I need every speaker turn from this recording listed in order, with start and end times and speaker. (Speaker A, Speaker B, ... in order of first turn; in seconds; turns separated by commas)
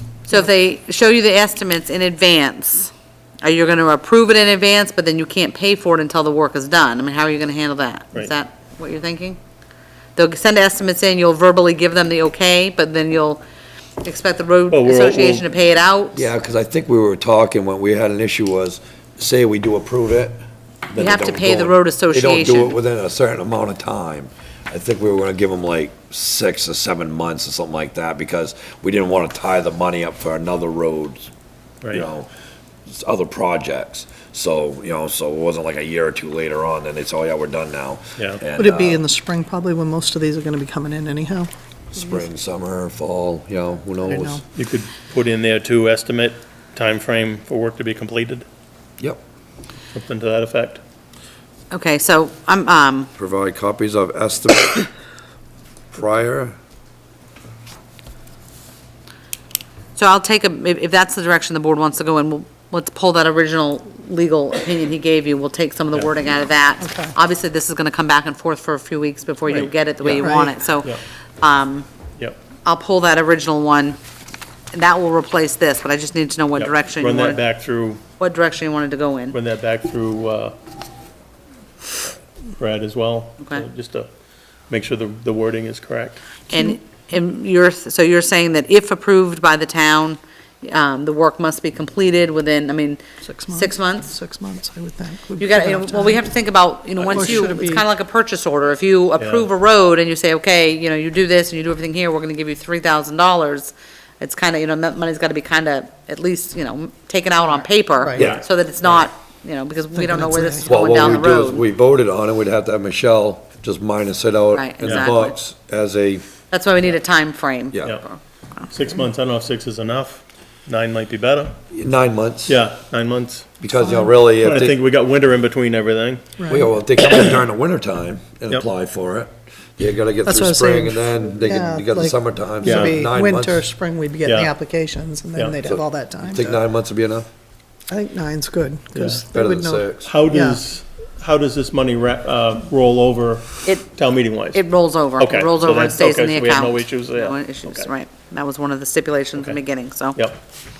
Speaker A: 0.3-9.4, Speaker A: 10.2-13.4, Speaker A: 14.0-16.3, Speaker B: 14.7-15.4, Speaker C: 16.1-20.4, Speaker C: 20.9-31.3, Speaker A: 21.0-22.8, Speaker C: 31.9-32.3, Speaker C: 32.9-39.0, Speaker B: 38.2-38.4, Speaker D: 38.5-41.5, Speaker C: 41.9-44.4, Speaker D: 44.0-44.4, Speaker B: 44.5-48.5, Speaker B: 49.9-50.8, Speaker A: 51.7-53.1, Speaker C: 53.2-54.9, Speaker C: 55.9-56.5, Speaker A: 60.0-71.9, Speaker D: 66.8-67.1, Speaker B: 69.5-71.0, Speaker D: 70.2-70.5, Speaker A: 72.6-74.0, Speaker A: 74.7-77.4, Speaker B: 76.6-78.0, Speaker A: 78.2-79.4, Speaker B: 79.3-80.5, Speaker B: 82.6-84.1, Speaker B: 84.7-86.2, Speaker A: 86.5-93.0, Speaker D: 93.2-96.2, Speaker A: 93.5-94.1, Speaker A: 95.4-111.6, Speaker B: 97.0-97.4, Speaker D: 97.0-97.8, Speaker B: 99.2-99.5, Speaker C: 108.2-108.4, Speaker D: 109.9-110.7, Speaker C: 110.6-116.2, Speaker A: 114.5-115.3, Speaker B: 114.8-115.1, Speaker A: 116.5-118.7, Speaker C: 117.7-118.0, Speaker B: 118.7-121.6, Speaker C: 121.7-122.6, Speaker B: 122.5-123.5, Speaker C: 123.6-124.8, Speaker D: 123.8-124.1, Speaker B: 124.4-126.2, Speaker D: 126.4-126.7, Speaker C: 126.5-133.7, Speaker D: 130.2-136.6, Speaker B: 132.6-133.0, Speaker B: 134.2-134.5, Speaker C: 135.6-137.2, Speaker D: 137.9-140.6, Speaker B: 138.9-139.2, Speaker C: 139.3-140.1, Speaker B: 140.0-144.6, Speaker A: 143.6-143.9, Speaker A: 144.5-150.2, Speaker B: 145.2-147.9